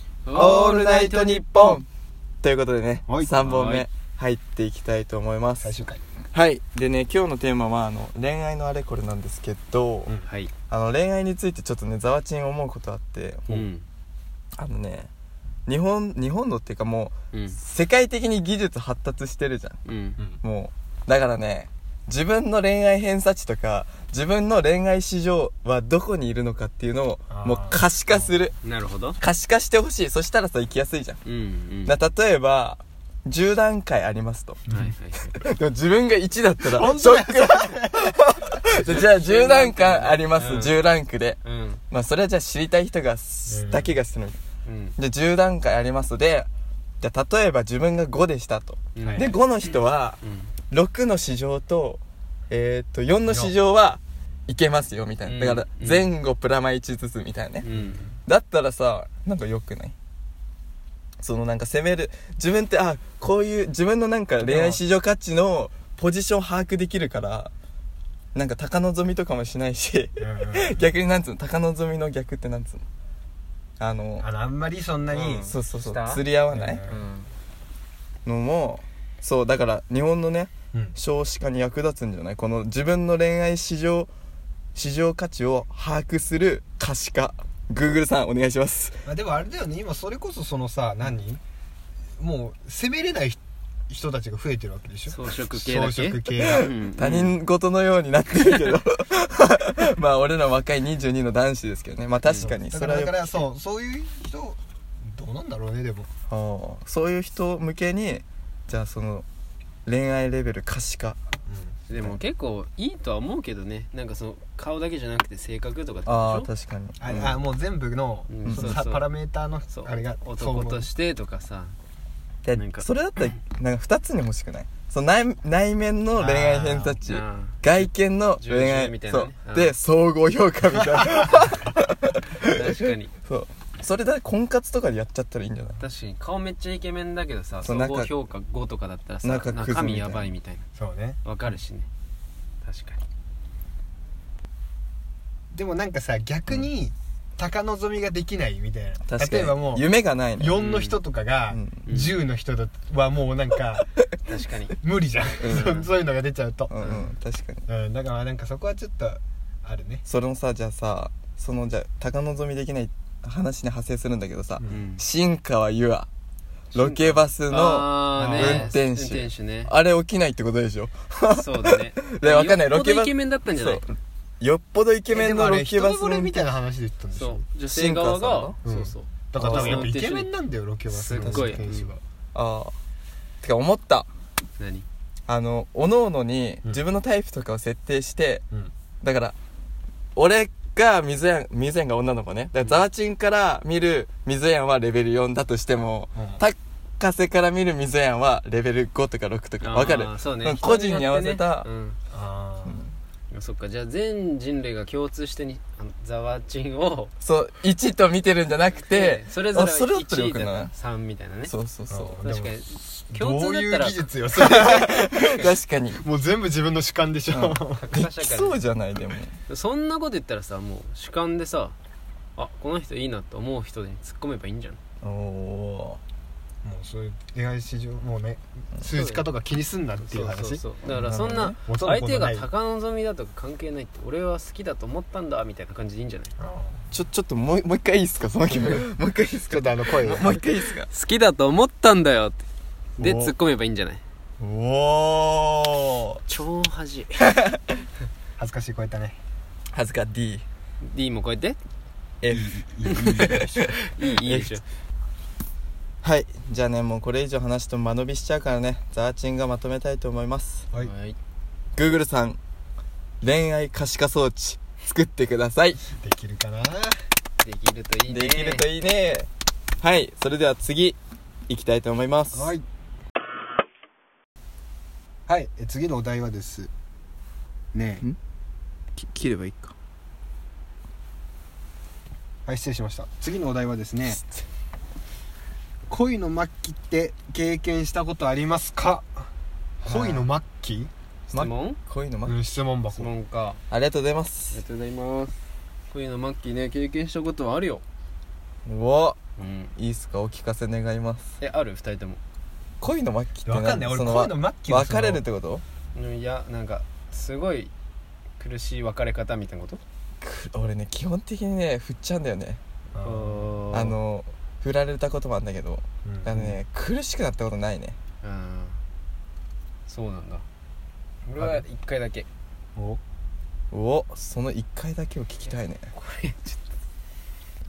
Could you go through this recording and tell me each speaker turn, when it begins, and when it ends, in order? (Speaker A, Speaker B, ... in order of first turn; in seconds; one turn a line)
Speaker A: 0.3-1.8
Speaker B: 0.3-1.9
Speaker B: 2.4-5.7
Speaker C: 3.1-3.4
Speaker A: 3.4-3.9
Speaker C: 5.6-6.0
Speaker B: 6.3-10.1
Speaker A: 10.2-10.5
Speaker B: 10.7-13.7
Speaker A: 13.5-13.8
Speaker B: 14.6-15.1
Speaker B: 15.7-19.8
Speaker A: 17.3-17.6
Speaker A: 19.9-20.2
Speaker B: 20.4-28.6
Speaker C: 27.3-28.4
Speaker A: 28.6-29.2
Speaker B: 29.2-31.2
Speaker A: 31.2-31.9
Speaker B: 31.9-34.7
Speaker A: 34.7-35.3
Speaker B: 35.3-41.4
Speaker C: 36.6-38.1
Speaker A: 38.7-40.8
Speaker A: 41.4-41.8
Speaker B: 41.9-44.4
Speaker C: 43.5-43.9
Speaker A: 44.6-45.0
Speaker B: 45.0-46.5
Speaker B: 47.0-50.2
Speaker A: 48.9-49.4
Speaker C: 49.0-49.3
Speaker A: 50.2-50.5
Speaker B: 50.7-57.7
Speaker C: 53.3-53.5
Speaker A: 55.2-56.1
Speaker A: 57.6-58.2
Speaker B: 58.3-60.0
Speaker B: 61.2-67.5
Speaker C: 64.4-64.8
Speaker B: 68.3-72.8
Speaker C: 70.2-70.8
Speaker B: 73.8-74.3
Speaker C: 74.2-75.5
Speaker A: 75.2-76.2
Speaker B: 75.2-77.3
Speaker C: 76.5-77.0
Speaker B: 78.2-84.1
Speaker B: 84.8-89.1
Speaker C: 89.0-91.4
Speaker C: 92.2-93.4
Speaker C: 93.9-96.7
Speaker A: 95.1-97.3
Speaker B: 96.4-103.4
Speaker A: 102.2-102.5
Speaker C: 102.4-106.1
Speaker B: 106.3-109.3
Speaker B: 109.9-111.2
Speaker C: 111.5-111.8
Speaker A: 111.9-116.5
Speaker B: 116.1-117.4
Speaker C: 117.0-120.9
Speaker A: 118.3-119.0
Speaker B: 118.5-118.7
Speaker A: 119.7-121.8
Speaker B: 122.4-132.6
Speaker A: 122.5-122.9
Speaker C: 126.2-127.0
Speaker A: 127.1-129.7
Speaker A: 132.4-133.1
Speaker B: 133.2-135.8
Speaker A: 135.8-140.6
Speaker B: 137.6-138.1
Speaker B: 139.2-140.3
Speaker C: 140.8-141.2
Speaker A: 141.2-141.9
Speaker A: 142.6-143.0
Speaker C: 145.5-153.9
Speaker B: 149.1-150.6
Speaker A: 150.5-151.0
Speaker B: 151.5-151.9
Speaker A: 151.9-152.2
Speaker A: 154.3-154.8
Speaker C: 154.8-156.8
Speaker B: 155.4-155.9
Speaker A: 155.5-155.9
Speaker B: 156.7-157.7
Speaker A: 156.8-157.1
Speaker C: 157.7-160.0
Speaker B: 160.1-166.1
Speaker A: 164.7-165.0
Speaker A: 166.7-169.7
Speaker B: 166.8-176.5
Speaker C: 168.2-168.6
Speaker A: 171.3-173.8
Speaker C: 175.1-177.5
Speaker A: 177.1-180.3
Speaker B: 177.7-178.6
Speaker C: 178.6-182.0
Speaker B: 179.4-179.9
Speaker A: 180.9-181.9
Speaker B: 181.2-181.6
Speaker B: 182.3-182.8
Speaker B: 183.4-184.1
Speaker A: 184.6-184.8
Speaker B: 185.3-188.4
Speaker B: 189.0-189.3
Speaker B: 190.2-201.7
Speaker C: 196.2-196.4
Speaker A: 199.6-202.0
Speaker C: 202.1-202.8
Speaker B: 202.7-202.9
Speaker A: 203.3-207.1
Speaker B: 207.2-210.7
Speaker A: 208.8-211.5
Speaker B: 211.5-212.2
Speaker C: 211.9-218.1
Speaker A: 212.2-214.1
Speaker B: 214.3-216.0
Speaker B: 217.3-217.6
Speaker A: 217.8-218.7
Speaker B: 218.2-219.4
Speaker A: 219.5-221.8
Speaker A: 222.4-224.8
Speaker B: 225.0-226.0
Speaker C: 226.6-230.7
Speaker A: 228.8-229.3
Speaker A: 230.0-236.3
Speaker B: 230.9-231.6
Speaker C: 231.6-232.5
Speaker C: 236.4-236.9
Speaker B: 236.9-240.9
Speaker C: 238.5-238.8
Speaker C: 239.5-240.4
Speaker A: 240.9-242.4
Speaker B: 243.0-243.3
Speaker A: 243.0-244.0
Speaker B: 244.4-246.2
Speaker A: 246.3-247.3
Speaker C: 248.4-249.2
Speaker B: 249.7-250.4
Speaker A: 250.8-251.6
Speaker B: 252.2-253.7
Speaker C: 252.3-253.5
Speaker A: 252.9-254.6
Speaker B: 254.2-254.6
Speaker B: 256.0-260.7
Speaker A: 260.8-261.2
Speaker B: 261.8-262.4
Speaker B: 263.2-265.8
Speaker C: 265.9-267.0
Speaker A: 267.4-268.7
Speaker B: 268.1-269.3
Speaker B: 269.8-271.0
Speaker B: 271.5-272.5
Speaker C: 272.3-272.6
Speaker C: 275.3-276.7
Speaker C: 277.7-278.1
Speaker B: 279.0-279.8
Speaker C: 282.5-284.2
Speaker C: 285.9-289.3
Speaker B: 289.8-290.3
Speaker C: 289.9-290.9
Speaker A: 291.3-291.8
Speaker B: 291.3-292.4
Speaker C: 292.3-293.1
Speaker A: 292.9-293.6
Speaker B: 293.7-294.6
Speaker A: 294.5-295.4
Speaker A: 295.9-297.8
Speaker B: 298.7-299.2
Speaker A: 299.4-299.7
Speaker B: 299.8-301.3
Speaker A: 301.4-302.2
Speaker B: 302.8-305.6
Speaker C: 303.4-305.2
Speaker A: 305.9-307.7
Speaker A: 308.4-309.8
Speaker B: 310.2-312.6
Speaker C: 312.9-313.6
Speaker A: 313.0-314.0
Speaker B: 313.7-318.0
Speaker C: 316.1-316.5
Speaker A: 318.2-318.8
Speaker A: 319.9-320.4
Speaker C: 321.3-321.6
Speaker A: 321.4-322.3
Speaker B: 323.7-325.9
Speaker A: 325.9-326.6